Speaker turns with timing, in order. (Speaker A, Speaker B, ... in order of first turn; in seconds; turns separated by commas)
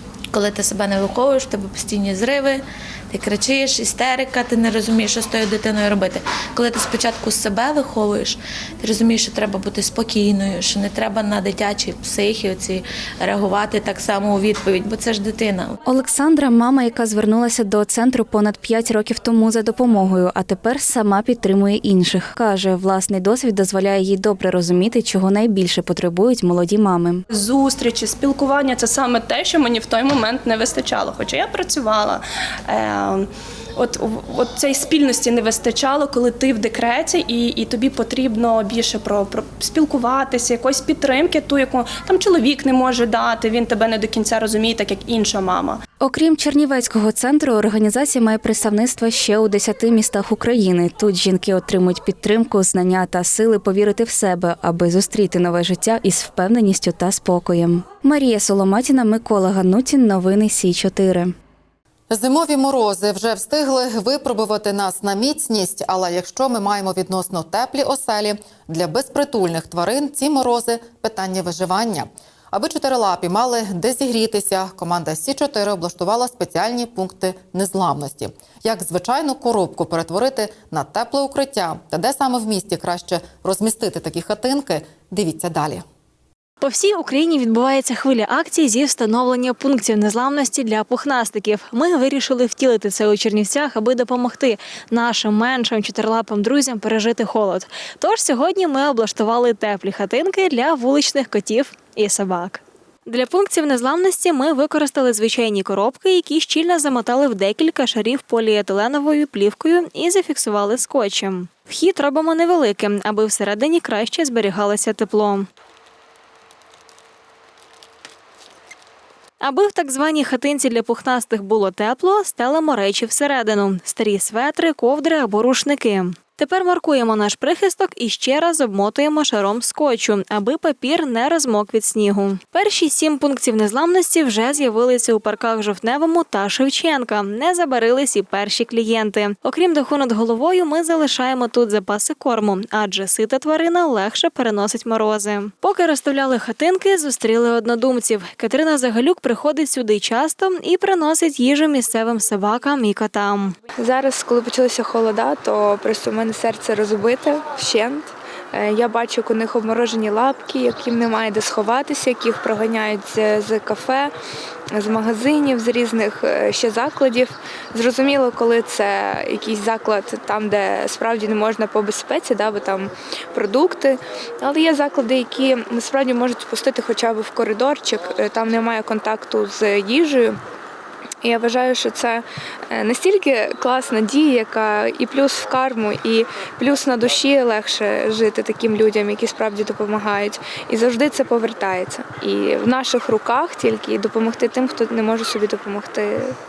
Speaker A: 0.3-15.8, Speaker B: 15.9-27.2, Speaker C: 27.3-45.8, Speaker B: 46.0-61.3, Speaker D: 62.1-85.8, Speaker E: 86.6-115.5, Speaker E: 119.4-153.5, Speaker F: 153.8-164.1, Speaker F: 164.8-173.9, Speaker F: 174.4-180.3, Speaker F: 181.2-182.2, Speaker F: 182.8-189.8, Speaker C: 185.1-186.0, Speaker C: 187.6-196.1, Speaker F: 190.6-193.0, Speaker F: 193.5-195.3